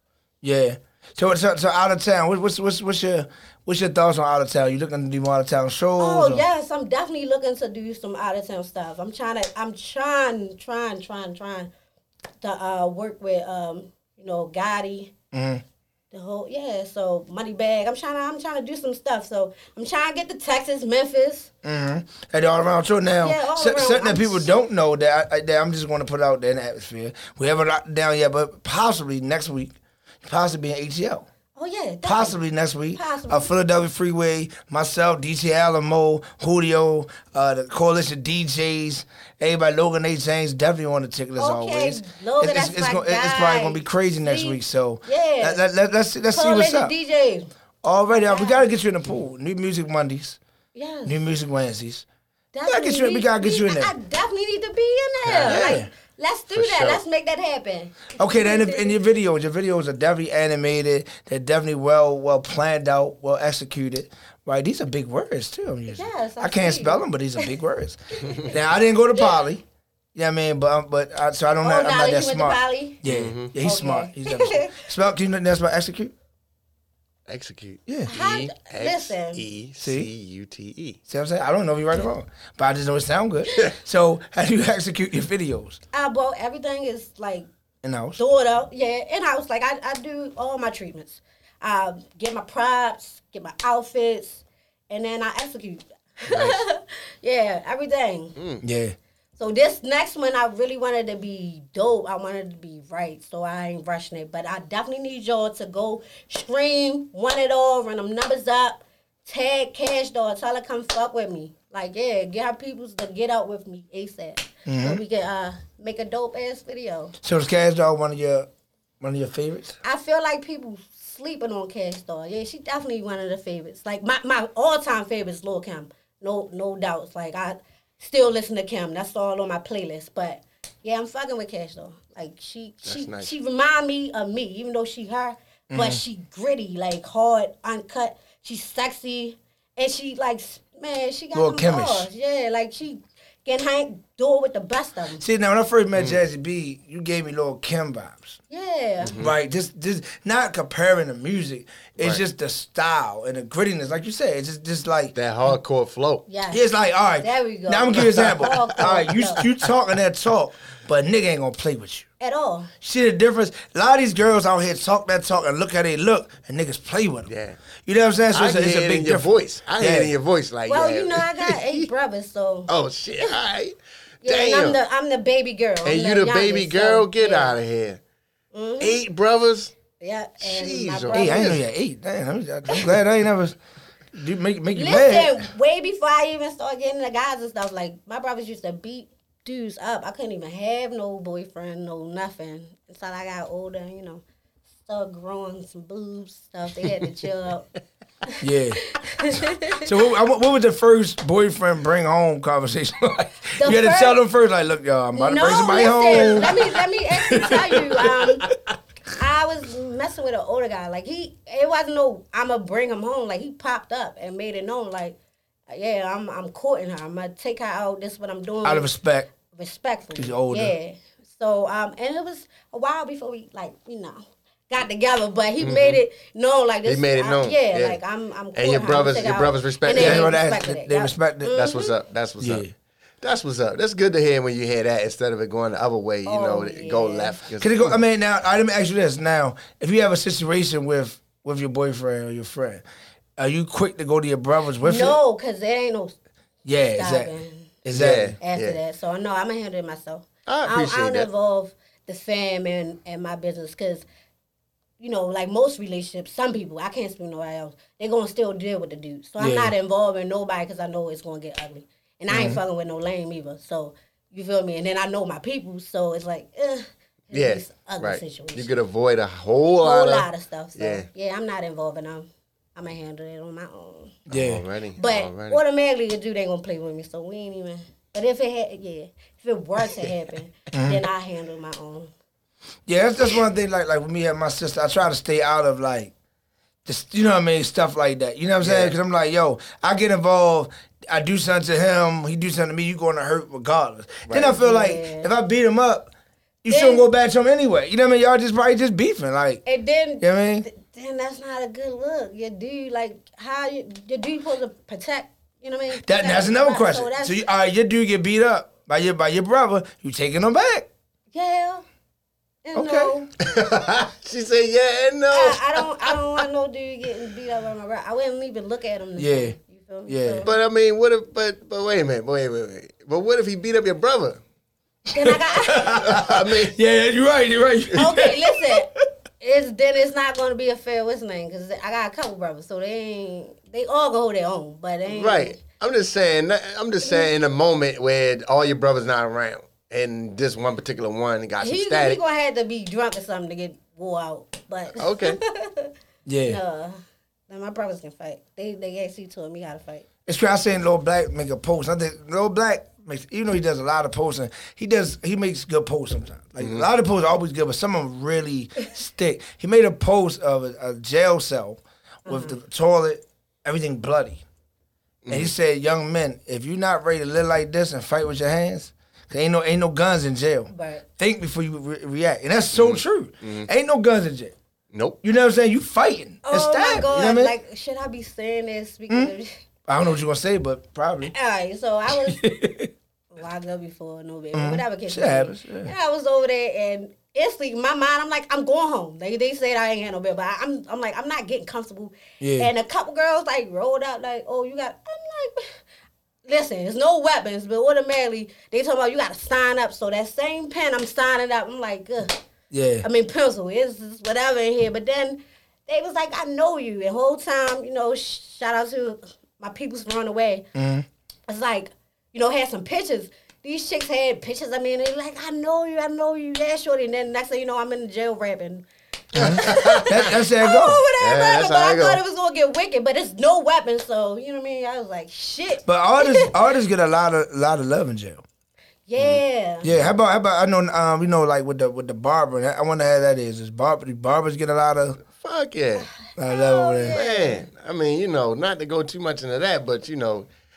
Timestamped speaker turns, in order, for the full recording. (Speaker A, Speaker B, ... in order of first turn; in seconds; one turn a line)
Speaker A: 0.4-6.4
Speaker B: 6.0-11.7
Speaker B: 12.4-15.1
Speaker A: 15.3-15.6
Speaker B: 16.1-21.5
Speaker A: 21.6-31.3
Speaker B: 23.2-24.5
Speaker B: 31.6-32.4
Speaker A: 32.0-46.9
Speaker B: 33.0-33.5
Speaker B: 41.4-45.6
Speaker B: 46.3-47.5
Speaker A: 47.8-50.4
Speaker B: 48.1-48.7
Speaker B: 50.8-51.2
Speaker A: 51.1-52.1
Speaker B: 52.5-58.9
Speaker A: 52.6-53.9
Speaker C: 55.2-55.8
Speaker A: 55.5-55.9
Speaker C: 56.5-57.0
Speaker A: 58.2-69.6
Speaker B: 65.9-67.5
Speaker A: 70.1-76.1
Speaker B: 71.6-73.0
Speaker C: 73.0-73.5
Speaker B: 73.6-74.8
Speaker C: 77.3-81.0
Speaker B: 78.1-79.4
Speaker A: 79.8-80.1
Speaker A: 81.1-85.8
Speaker B: 85.9-87.5
Speaker A: 87.8-88.2
Speaker B: 88.2-98.4
Speaker C: 96.3-96.6
Speaker C: 98.4-98.6
Speaker A: 98.6-99.0
Speaker B: 99.4-117.1
Speaker A: 114.7-115.0
Speaker A: 117.2-118.5
Speaker A: 119.0-119.8
Speaker B: 119.8-145.2
Speaker C: 132.8-133.3
Speaker A: 135.7-136.0
Speaker A: 141.3-142.1
Speaker A: 145.2-148.4
Speaker B: 148.5-149.1
Speaker C: 149.0-149.3
Speaker A: 149.2-155.1
Speaker C: 155.1-156.3
Speaker B: 156.3-156.6
Speaker A: 156.5-162.1
Speaker B: 157.2-159.4
Speaker C: 158.0-158.4
Speaker B: 162.2-162.7
Speaker A: 162.8-167.3
Speaker C: 167.3-167.6
Speaker A: 167.8-170.1
Speaker C: 168.3-171.9
Speaker B: 170.7-173.3
Speaker C: 172.7-174.8
Speaker B: 174.2-177.6
Speaker C: 175.8-178.0
Speaker B: 178.5-179.0
Speaker C: 178.8-179.7
Speaker B: 180.0-181.6
Speaker C: 180.4-181.6
Speaker A: 181.1-183.6
Speaker A: 184.1-185.5
Speaker B: 184.8-194.2
Speaker B: 194.8-197.7
Speaker B: 198.3-199.9
Speaker A: 198.4-199.0
Speaker A: 199.7-208.6
Speaker B: 203.6-204.2
Speaker B: 205.1-208.5
Speaker B: 209.2-215.2
Speaker B: 215.7-218.9
Speaker A: 218.6-219.3
Speaker B: 219.5-232.0
Speaker A: 220.1-220.7
Speaker C: 225.6-226.0
Speaker C: 226.8-228.0
Speaker C: 228.6-230.3
Speaker A: 229.9-231.6
Speaker C: 231.5-232.6
Speaker A: 232.4-232.7
Speaker C: 233.2-238.0
Speaker B: 236.2-237.4
Speaker A: 237.6-242.8
Speaker A: 243.4-245.2
Speaker B: 244.8-246.2
Speaker A: 246.6-247.3
Speaker B: 246.9-247.8
Speaker A: 247.8-248.3
Speaker C: 247.9-248.8
Speaker B: 248.4-254.1
Speaker C: 250.5-251.3
Speaker B: 255.0-268.7
Speaker A: 259.4-259.7
Speaker A: 262.3-262.6
Speaker C: 267.3-271.1
Speaker B: 269.8-274.2
Speaker C: 274.3-275.6
Speaker A: 274.3-274.6
Speaker B: 275.0-282.1
Speaker A: 280.7-281.0
Speaker A: 282.9-286.1
Speaker A: 286.9-296.1
Speaker C: 288.6-288.9
Speaker C: 294.2-294.6
Speaker B: 294.5-295.3
Speaker A: 296.6-299.6
Speaker B: 296.7-297.1
Speaker B: 299.6-307.4
Speaker A: 300.2-300.6
Speaker A: 306.0-310.9
Speaker B: 311.3-311.8
Speaker B: 312.6-313.3
Speaker A: 312.7-313.2
Speaker C: 313.4-316.4
Speaker B: 315.3-320.5
Speaker A: 319.2-319.6
Speaker A: 320.1-320.5
Speaker C: 320.4-324.4
Speaker B: 325.1-326.3
Speaker A: 325.2-328.9
Speaker C: 325.9-326.8
Speaker B: 327.9-328.9
Speaker B: 329.4-335.6
Speaker C: 335.1-342.2
Speaker B: 337.0-337.3
Speaker B: 341.6-345.9
Speaker C: 345.0-345.4
Speaker A: 346.3-346.6
Speaker B: 346.4-350.1
Speaker A: 350.3-364.4
Speaker C: 356.6-356.9
Speaker B: 362.3-362.6
Speaker C: 365.2-365.5
Speaker A: 365.3-374.6
Speaker B: 370.7-371.1
Speaker C: 372.7-373.7
Speaker C: 374.9-375.2
Speaker A: 375.2-377.5
Speaker B: 376.4-379.5
Speaker A: 379.9-381.3
Speaker B: 381.3-382.6
Speaker A: 382.3-382.9
Speaker B: 383.3-395.8
Speaker A: 384.5-385.9
Speaker A: 392.4-392.7
Speaker B: 396.4-402.4
Speaker A: 402.7-403.1
Speaker B: 403.0-410.6
Speaker A: 410.8-411.1
Speaker B: 411.5-426.5
Speaker A: 419.3-421.0
Speaker C: 419.4-420.2
Speaker C: 421.2-422.2
Speaker A: 425.9-428.4
Speaker B: 429.1-429.9
Speaker C: 429.2-430.1
Speaker A: 429.8-435.2
Speaker C: 435.4-436.1
Speaker B: 436.0-437.6
Speaker A: 436.4-437.2
Speaker C: 437.1-440.5